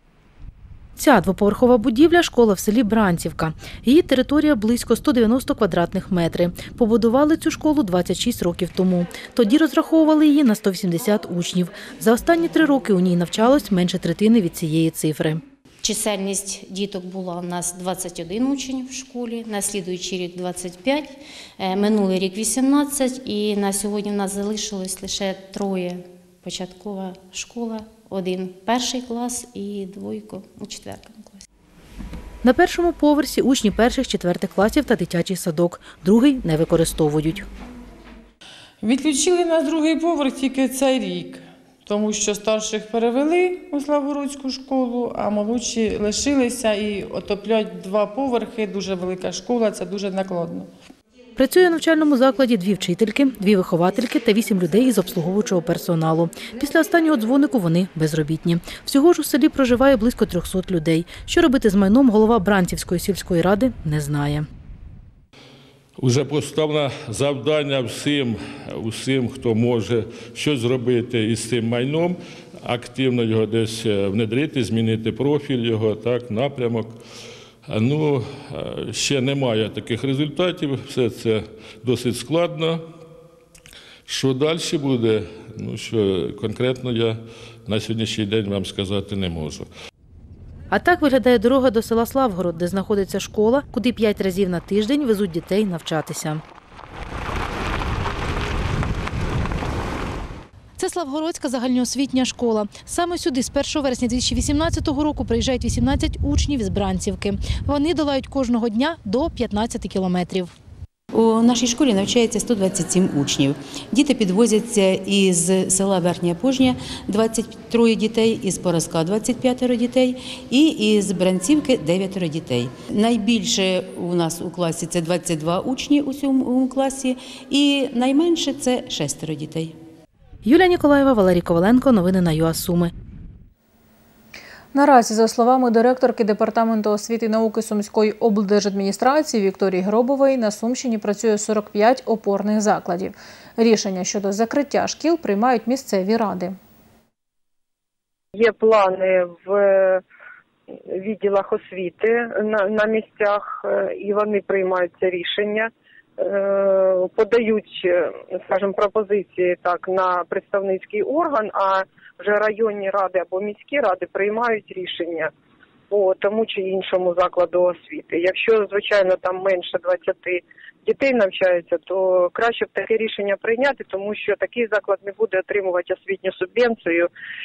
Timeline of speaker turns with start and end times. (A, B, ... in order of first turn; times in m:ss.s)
0:01.0-0:15.4 A
0:15.8-0:31.4 B
0:32.4-0:37.5 A
0:38.8-0:50.7 C
0:51.4-1:04.5 A
1:06.0-1:17.0 D
1:17.7-1:22.8 D
1:24.1-1:29.7 D
1:30.7-1:36.4 A
1:40.8-1:50.5 A
1:51.1-2:09.7 E
2:10.4-2:12.9 A
2:14.7-2:26.6 F
2:28.4-2:30.0 G
2:30.9-2:45.3 G
2:45.9-2:57.1 G